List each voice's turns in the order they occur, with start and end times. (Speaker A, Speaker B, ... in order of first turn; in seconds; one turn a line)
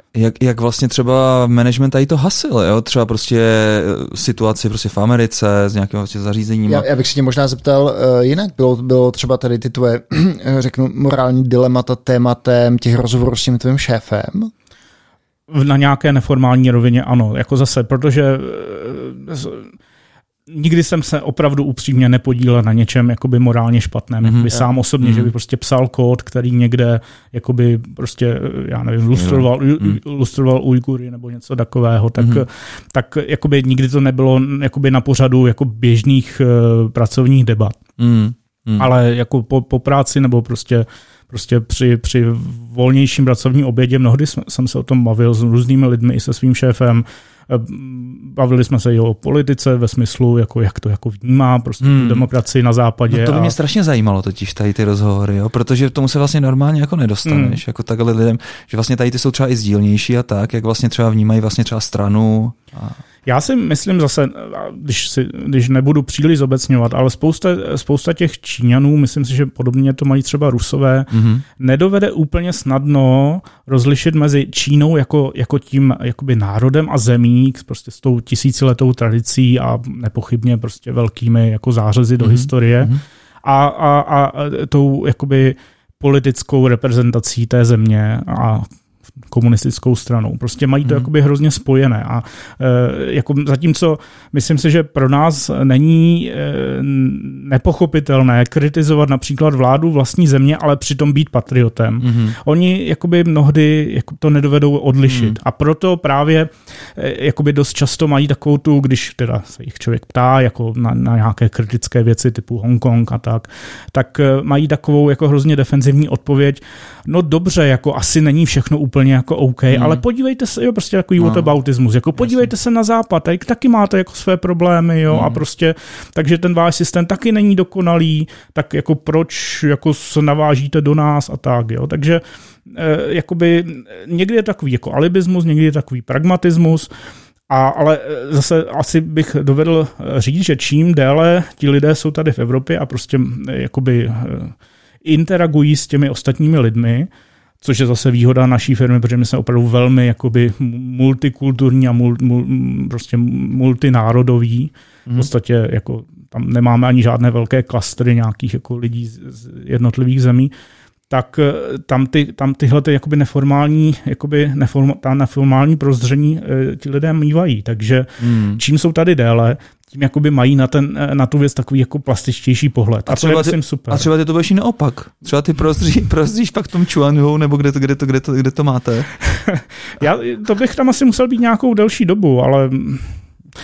Speaker A: 0.1-6.9
Speaker B: 6.7-14.5
Speaker C: 15.5-19.7
Speaker C: 20.5-37.8
Speaker A: 24.2-25.3
Speaker A: 29.1-30.0
Speaker A: 32.2-32.4
Speaker A: 38.0-38.9
Speaker C: 38.8-53.5
Speaker A: 51.8-52.3
Speaker A: 53.1-63.0
Speaker C: 57.2-57.6
Speaker C: 63.3-82.9
Speaker A: 71.1-71.4
Speaker A: 82.2-83.0
Speaker C: 83.4-88.7
Speaker C: 89.3-136.9
Speaker A: 102.0-102.4
Speaker A: 105.1-105.3
Speaker A: 119.7-120.0
Speaker A: 125.1-125.4
Speaker C: 137.5-147.1
Speaker C: 147.6-160.5
Speaker C: 161.1-174.1
Speaker A: 168.2-168.6
Speaker A: 173.1-179.1
Speaker C: 179.2-183.2